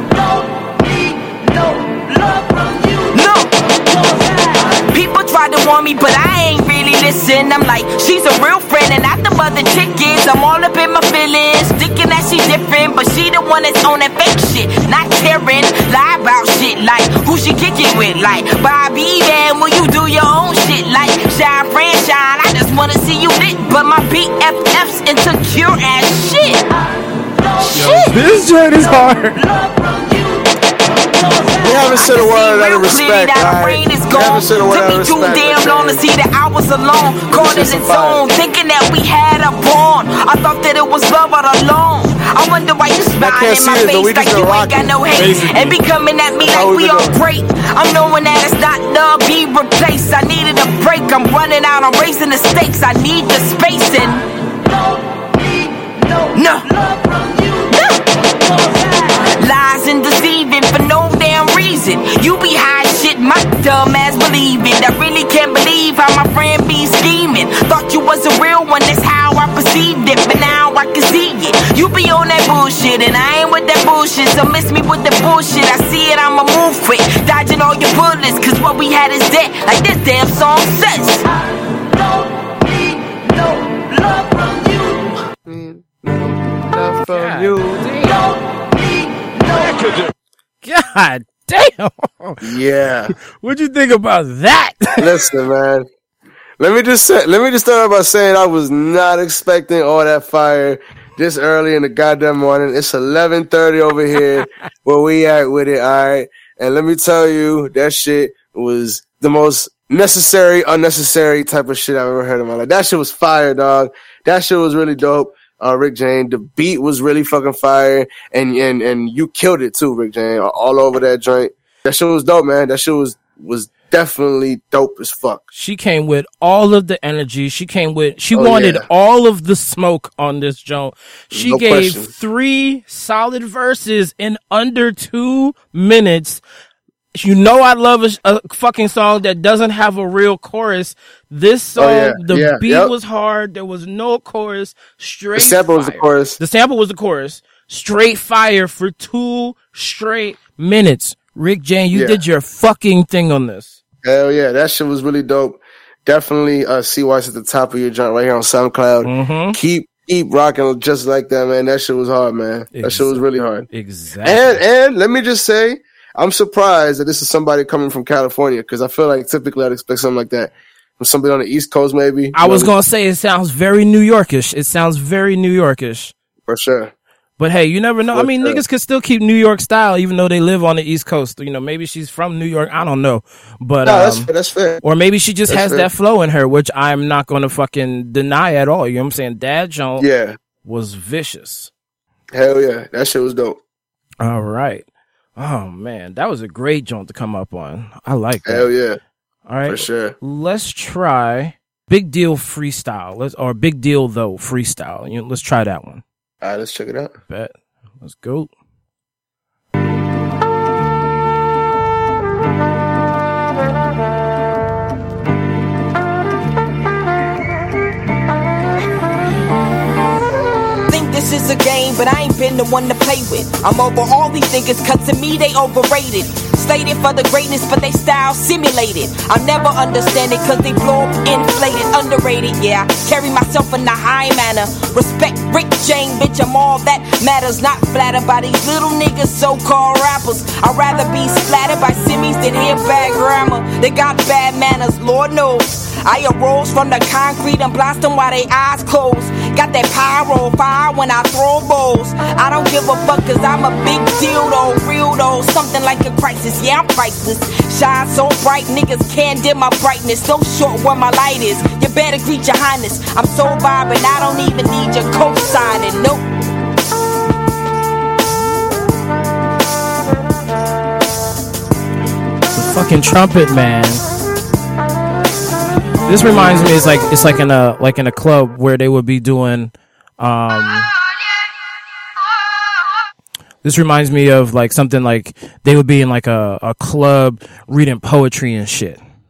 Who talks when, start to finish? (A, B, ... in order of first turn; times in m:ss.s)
0:03.0-0:03.5 A
0:04.1-0:26.7 A
0:27.7-0:28.2 A
0:27.7-0:29.5 B
0:31.6-0:36.0 C
0:31.6-0:54.3 A
0:37.3-0:38.2 C
0:43.2-0:45.7 C
0:45.2-0:45.7 B
0:46.4-0:47.2 C
0:56.3-0:56.9 A
0:57.4-1:21.3 A
1:25.4-1:27.8 C
1:27.1-1:28.3 B
1:29.8-1:30.1 B
1:30.6-1:32.5 B
1:32.4-1:33.1 C
1:33.3-1:35.2 B
1:35.0-1:35.9 C
1:36.6-2:05.5 C
2:05.5-2:16.4 B
2:08.3-2:08.8 C
2:11.3-2:12.1 C
2:17.2-2:33.8 B
2:21.8-2:22.9 C
2:25.4-2:26.4 C
2:31.9-2:32.2 C
2:34.0-2:43.7 C
2:39.0-2:39.6 B
2:42.7-2:44.6 B
2:44.2-2:52.7 C
2:52.3-2:56.1 B
2:56.5-2:56.9 C
2:57.4-3:04.3 B
2:58.1-2:58.6 C
3:03.8-3:04.8 C
3:04.8-3:10.1 B
3:05.5-3:05.9 C
3:10.0-3:10.4 C
3:10.6-3:11.7 B
3:12.3-3:13.6 C
3:14.2-3:18.7 B
3:18.4-3:19.0 C
3:19.5-3:26.0 B
3:19.7-3:20.2 C
3:26.4-3:27.1 C
3:27.3-3:28.5 B
3:40.9-4:26.2 A
4:32.5-4:34.0 B
4:36.1-4:40.9 B
4:43.6-4:49.0 B